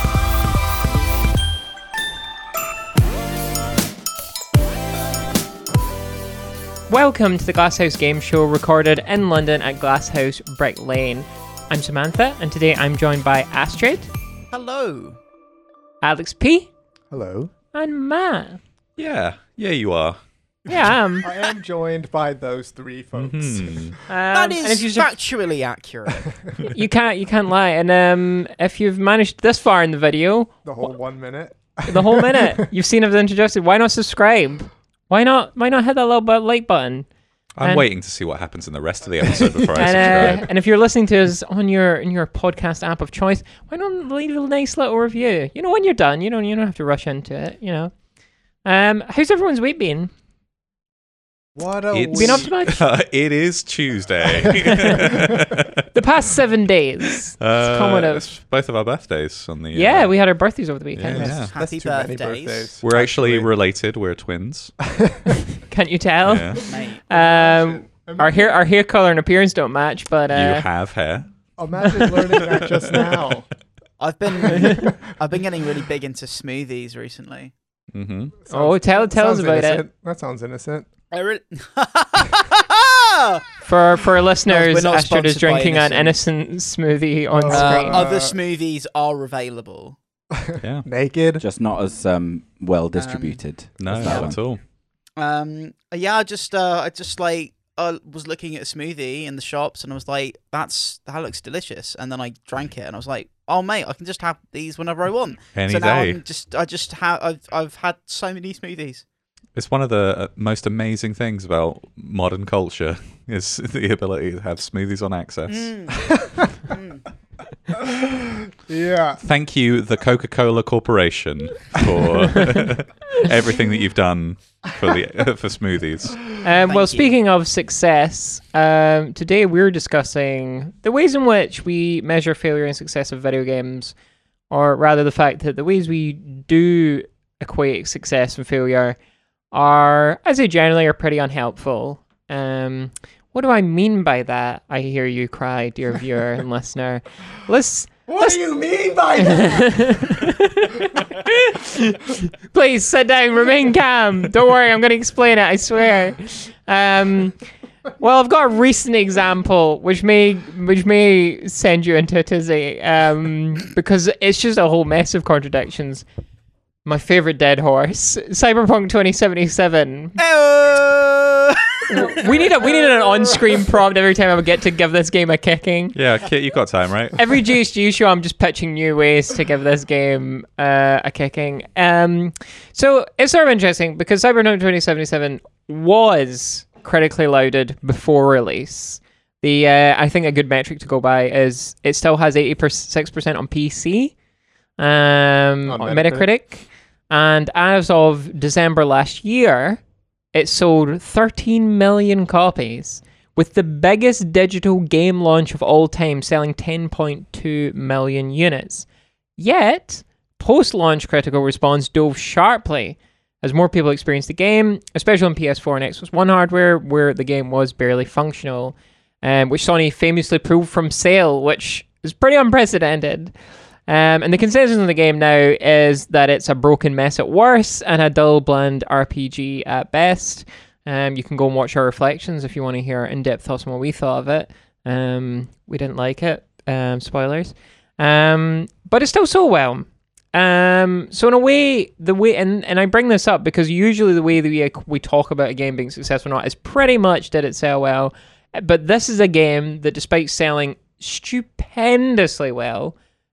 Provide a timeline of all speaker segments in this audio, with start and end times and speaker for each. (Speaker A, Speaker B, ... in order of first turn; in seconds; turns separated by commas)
Speaker A: 6.9-14.1, Speaker B: 14.5-15.2, Speaker A: 16.0-16.7, Speaker C: 17.1-17.5, Speaker A: 17.7-18.6, Speaker D: 19.0-20.2, Speaker A: 20.7-21.3, Speaker C: 21.2-24.0, Speaker D: 23.2-24.0, Speaker A: 24.1-25.1, Speaker B: 24.3-26.4, Speaker A: 26.6-30.9, Speaker C: 30.6-32.6, Speaker A: 31.9-37.1, Speaker D: 37.6-40.5, Speaker A: 37.6-37.9, Speaker C: 39.4-40.4, Speaker A: 39.7-48.0, Speaker A: 48.6-50.1, Speaker C: 51.5-52.5, Speaker D: 51.9-55.7, Speaker A: 52.1-52.8, Speaker A: 55.9-58.2, Speaker D: 57.4-60.2, Speaker A: 59.7-61.3, Speaker D: 61.0-61.5, Speaker C: 61.1-63.5, Speaker B: 61.1-62.7, Speaker D: 62.8-64.8, Speaker C: 65.0-65.3, Speaker A: 65.7-70.7, Speaker D: 66.2-66.6, Speaker B: 66.7-67.0, Speaker C: 67.1-68.6, Speaker D: 70.3-71.3, Speaker C: 71.6-73.5, Speaker D: 72.4-73.1, Speaker B: 74.0-77.5, Speaker C: 74.5-74.9, Speaker A: 74.6-74.8, Speaker D: 77.9-78.4, Speaker C: 78.4-80.9, Speaker A: 78.5-79.8, Speaker B: 81.1-83.5, Speaker A: 83.6-88.0, Speaker B: 84.5-86.2, Speaker C: 87.3-88.4, Speaker B: 87.5-90.0, Speaker C: 90.5-91.4, Speaker D: 90.6-90.9, Speaker E: 91.4-94.5, Speaker B: 92.9-94.6, Speaker D: 93.8-94.6, Speaker B: 95.2-109.0, Speaker D: 105.5-106.2, Speaker D: 109.5-116.0, Speaker B: 115.5-117.0, Speaker C: 117.8-119.2, Speaker D: 119.2-126.4, Speaker A: 126.4-134.0, Speaker B: 126.7-127.1, Speaker A: 134.5-139.0, Speaker A: 139.5-157.4, Speaker C: 148.1-150.3, Speaker A: 158.0-166.1, Speaker A: 166.8-170.2, Speaker B: 170.2-173.4, Speaker A: 171.9-176.0, Speaker D: 175.9-177.3, Speaker A: 177.2-194.2, Speaker A: 194.8-199.8, Speaker C: 195.7-196.3, Speaker A: 200.3-252.9